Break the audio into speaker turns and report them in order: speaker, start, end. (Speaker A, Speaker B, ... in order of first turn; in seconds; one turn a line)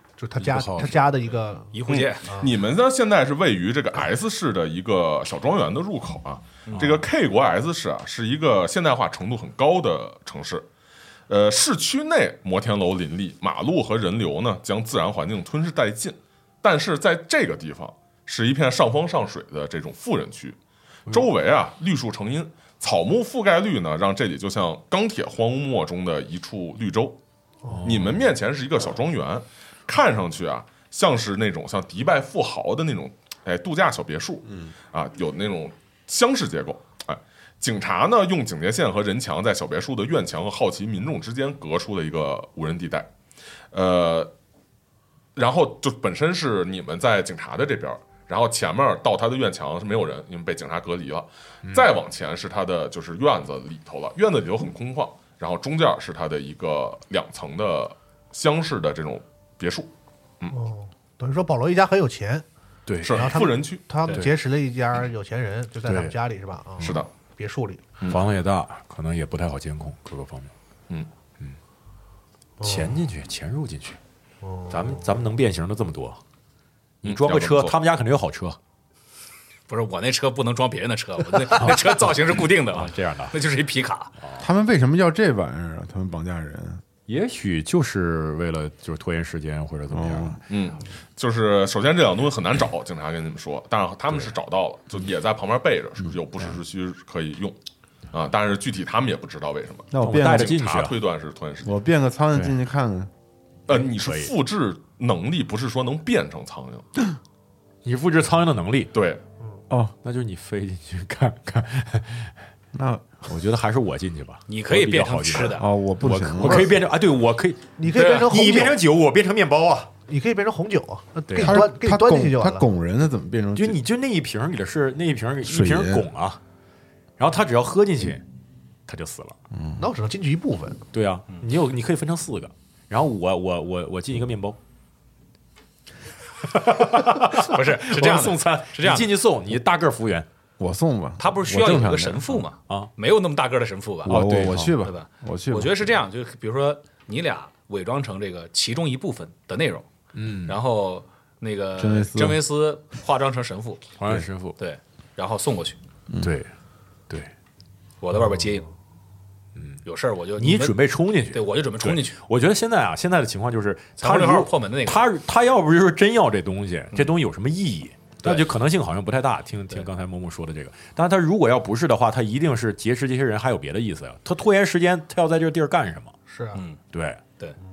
Speaker A: 0.2-2.5
Speaker B: 0.4-1.1
Speaker C: 1.7-2.3
Speaker D: 1.9-10.7
Speaker C: 6.7-6.9
Speaker B: 6.7-7.0
Speaker D: 11.3-27.2
Speaker A: 27.6-27.9
Speaker B: 27.7-28.2
Speaker D: 27.8-43.1
Speaker D: 43.7-44.3
Speaker D: 45.3-59.9
Speaker A: 60.5-62.4
Speaker B: 62.9-63.4
Speaker D: 63.0-63.8
Speaker A: 63.1-67.9
Speaker B: 64.1-64.3
Speaker B: 65.8-66.1
Speaker D: 66.8-67.1
Speaker B: 68.1-70.5
Speaker A: 72.6-73.0
Speaker B: 72.6-74.0
Speaker A: 74.4-75.2
Speaker B: 74.7-76.2
Speaker D: 77.0-77.8
Speaker B: 77.0-78.6
Speaker C: 79.7-84.1
Speaker B: 81.5-82.1
Speaker B: 82.7-83.3
Speaker E: 84.4-86.8
Speaker B: 87.1-90.4
Speaker E: 89.9-90.4
Speaker D: 90.5-97.6
Speaker D: 98.1-101.8
Speaker E: 99.9-100.6
Speaker B: 100.0-101.0
Speaker E: 101.6-103.1
Speaker D: 103.7-106.8
Speaker B: 103.7-104.3
Speaker B: 107.8-108.9
Speaker D: 108.9-109.2
Speaker B: 110.0-112.3
Speaker E: 112.7-113.4
Speaker B: 113.3-119.9
Speaker C: 114.5-115.7
Speaker E: 115.5-116.8
Speaker A: 116.4-116.8
Speaker A: 117.8-118.8
Speaker C: 117.9-118.3
Speaker A: 120.1-122.6
Speaker B: 121.3-121.6
Speaker E: 121.4-123.8
Speaker B: 123.5-126.4
Speaker E: 125.4-126.1
Speaker B: 127.2-128.2
Speaker B: 128.9-129.3
Speaker E: 129.5-129.9
Speaker A: 129.8-130.8
Speaker B: 130.9-134.6
Speaker B: 136.4-140.3
Speaker C: 137.3-139.1
Speaker E: 140.6-142.5
Speaker C: 141.2-149.9
Speaker E: 144.0-145.9
Speaker B: 144.0-144.8
Speaker B: 150.1-150.6
Speaker C: 150.4-153.9
Speaker E: 151.8-152.4
Speaker B: 154.0-154.6
Speaker C: 154.6-155.8
Speaker E: 156.1-156.3
Speaker B: 156.2-156.5
Speaker C: 158.0-158.7
Speaker B: 159.6-159.8
Speaker C: 159.8-162.2
Speaker B: 160.4-176.1
Speaker C: 164.0-165.1
Speaker A: 176.3-176.6
Speaker C: 176.5-176.8
Speaker B: 176.9-177.2